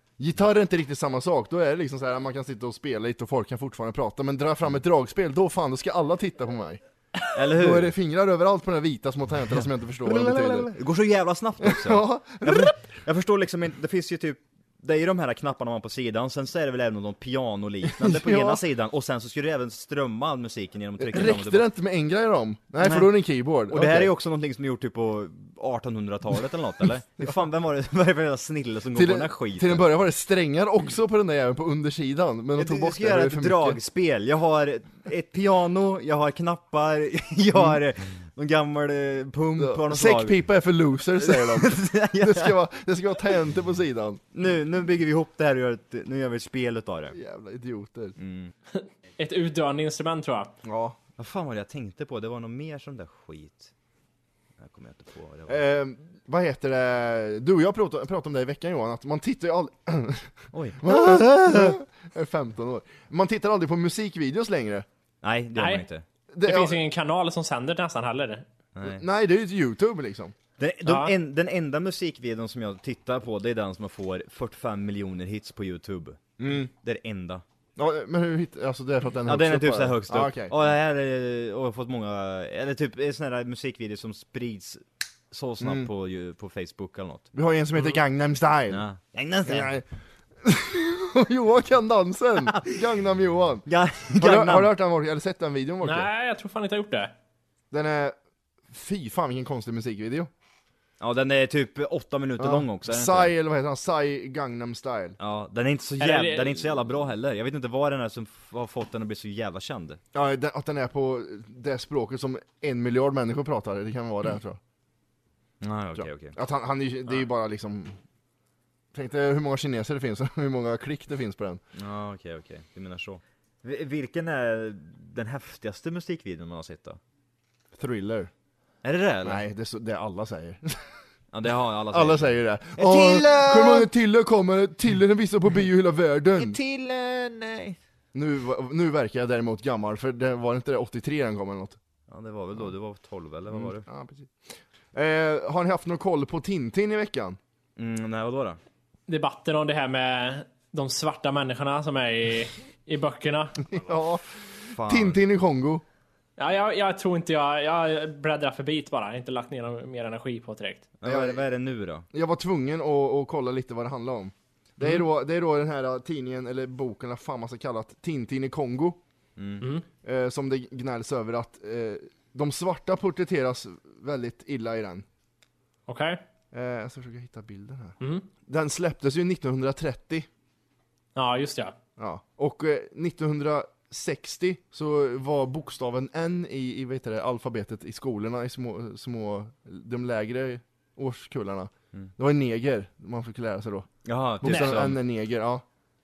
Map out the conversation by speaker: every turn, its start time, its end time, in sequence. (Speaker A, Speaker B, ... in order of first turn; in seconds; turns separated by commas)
Speaker A: 0.2-6.8, Speaker B: 7.3-7.9, Speaker A: 7.5-10.7, Speaker B: 10.0-21.7, Speaker A: 11.6-12.7, Speaker A: 17.9-18.6, Speaker A: 21.0-24.1, Speaker B: 22.8-23.1, Speaker B: 23.7-29.9, Speaker A: 28.9-33.8, Speaker B: 32.6-40.4, Speaker A: 39.6-44.2, Speaker B: 41.2-42.6, Speaker B: 44.3-47.2, Speaker A: 47.1-48.1, Speaker B: 48.2-48.5, Speaker C: 48.7-50.5, Speaker A: 50.6-51.0, Speaker B: 51.2-53.7, Speaker B: 54.6-55.6, Speaker A: 55.5-64.9, Speaker B: 60.5-61.8, Speaker B: 65.2-66.0, Speaker C: 65.6-65.8, Speaker A: 66.3-66.8, Speaker C: 66.4-68.5, Speaker B: 68.8-69.0, Speaker A: 68.8-70.3, Speaker B: 70.6-76.2, Speaker C: 70.8-71.1, Speaker A: 76.4-76.7, Speaker B: 76.7-77.4, Speaker A: 77.8-80.5, Speaker B: 79.3-87.3, Speaker A: 85.6-85.9, Speaker A: 87.3-88.8, Speaker B: 88.7-89.7, Speaker A: 89.5-89.9, Speaker A: 90.4-96.1, Speaker B: 92.5-92.8, Speaker B: 93.7-94.7, Speaker C: 95.8-97.1, Speaker A: 97.7-98.2, Speaker A: 98.7-100.3, Speaker B: 101.0-103.3, Speaker A: 102.4-105.2, Speaker B: 105.2-110.0, Speaker C: 106.0-106.6, Speaker A: 110.1-114.6, Speaker B: 115.6-116.4, Speaker A: 116.0-118.0, Speaker A: 118.9-121.6, Speaker B: 121.8-127.0, Speaker A: 127.8-128.3, Speaker B: 128.8-129.4, Speaker A: 129.2-131.0, Speaker B: 131.3-133.9, Speaker A: 131.9-136.6, Speaker B: 136.4-137.8, Speaker A: 138.1-141.8, Speaker B: 142.1-143.9, Speaker A: 143.5-147.4, Speaker B: 147.8-148.6, Speaker C: 149.1-153.6, Speaker A: 153.7-155.8, Speaker B: 154.7-155.2, Speaker C: 156.4-160.9, Speaker B: 161.0-162.1, Speaker A: 161.1-161.4, Speaker A: 162.1-169.0, Speaker B: 169.4-169.7, Speaker A: 170.0-175.1, Speaker C: 175.9-176.2, Speaker A: 176.5-180.3, Speaker C: 178.0-178.3, Speaker C: 181.2-181.8, Speaker A: 182.0-193.9, Speaker B: 194.1-195.0, Speaker A: 194.4-195.6, Speaker C: 194.5-194.8